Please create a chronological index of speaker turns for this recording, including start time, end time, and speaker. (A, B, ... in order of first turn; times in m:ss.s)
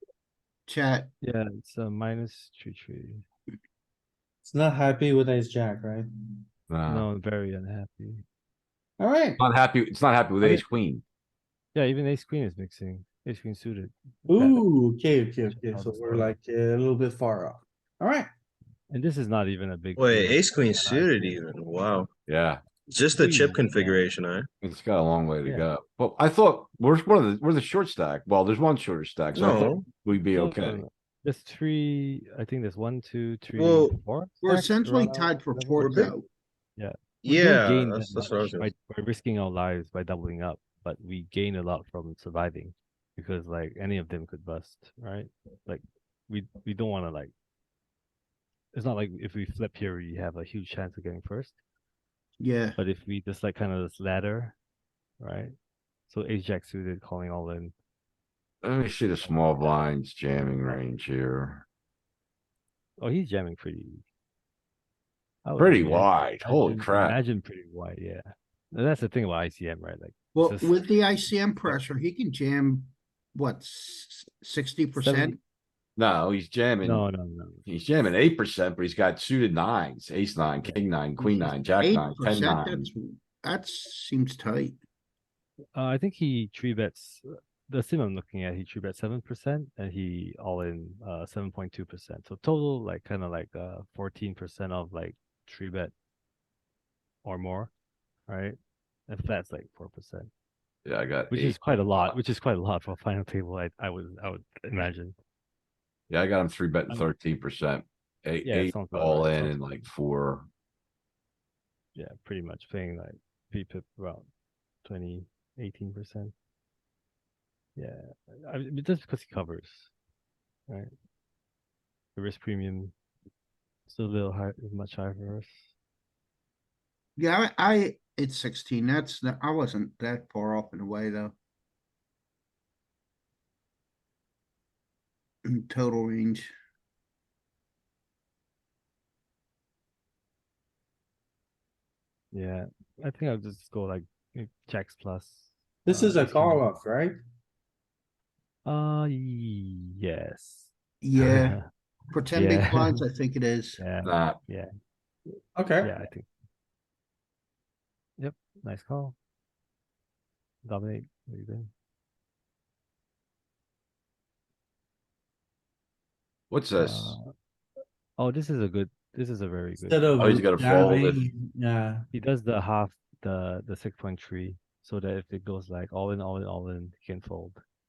0:00.7-0:01.1 A
0:01.2-0:03.2 B
0:04.4-0:06.4 C
0:06.7-0:07.1 D
0:06.9-0:08.2 B
0:09.0-0:09.4 C
0:09.4-0:11.0 D
0:11.8-0:14.6 B
0:14.3-0:18.3 C
0:15.5-0:16.4 B
0:18.9-0:21.5 B
0:20.0-0:22.1 E
0:22.3-0:22.6 D
0:22.9-0:24.5 E
0:23.1-0:24.1 B
0:24.6-0:30.8 D
0:29.4-0:29.9 E
0:30.3-0:36.1 B
0:33.5-0:34.0 E
0:34.4-0:36.3 A
0:35.8-0:36.1 E
0:36.8-0:47.3 B
0:37.2-0:38.7 E
0:48.7-0:51.6 B
0:52.4-0:52.8 A
0:52.8-0:54.6 B
0:55.2-0:55.6 B
0:56.1-0:57.7 B
0:58.6-1:01.6 D
0:59.2-0:59.9 B
1:03.0-1:04.0 B
1:05.4-1:11.8 B
1:05.6-1:07.2 D
1:10.4-1:15.4 A
1:15.0-1:15.4 B
1:16.0-1:17.1 D
1:16.8-1:17.7 B
1:17.7-1:22.9 D
1:20.6-1:21.6 B
1:21.7-1:24.8 A
1:25.8-1:35.9 B
1:37.2-1:37.7 B
1:38.3-1:38.6 B
1:39.1-1:40.3 B
1:40.8-1:42.2 D
1:41.3-1:45.2 B
1:46.1-1:50.5 D
1:48.4-1:49.9 B
1:52.0-1:54.3 B
1:54.8-1:56.3 B
1:57.8-1:59.9 B
2:02.2-2:02.9 B
2:03.9-2:05.7 B
2:07.2-2:11.4 A
2:15.4-2:16.5 A
2:22.3-2:26.7 B
2:25.9-2:27.2 C
2:28.6-2:31.7 B
2:31.0-2:31.6 A
2:32.1-2:33.8 A
2:32.3-2:33.0 B
2:33.8-2:34.7 B
2:34.0-2:34.4 D
2:35.6-2:35.9 C
2:35.8-2:36.3 B
2:38.2-2:39.2 B
2:40.6-2:41.7 B
2:46.5-2:47.2 D
2:46.8-2:47.3 B
2:48.2-2:50.3 B
2:49.8-2:52.1 C
2:50.2-2:51.2 D
2:52.1-2:57.6 B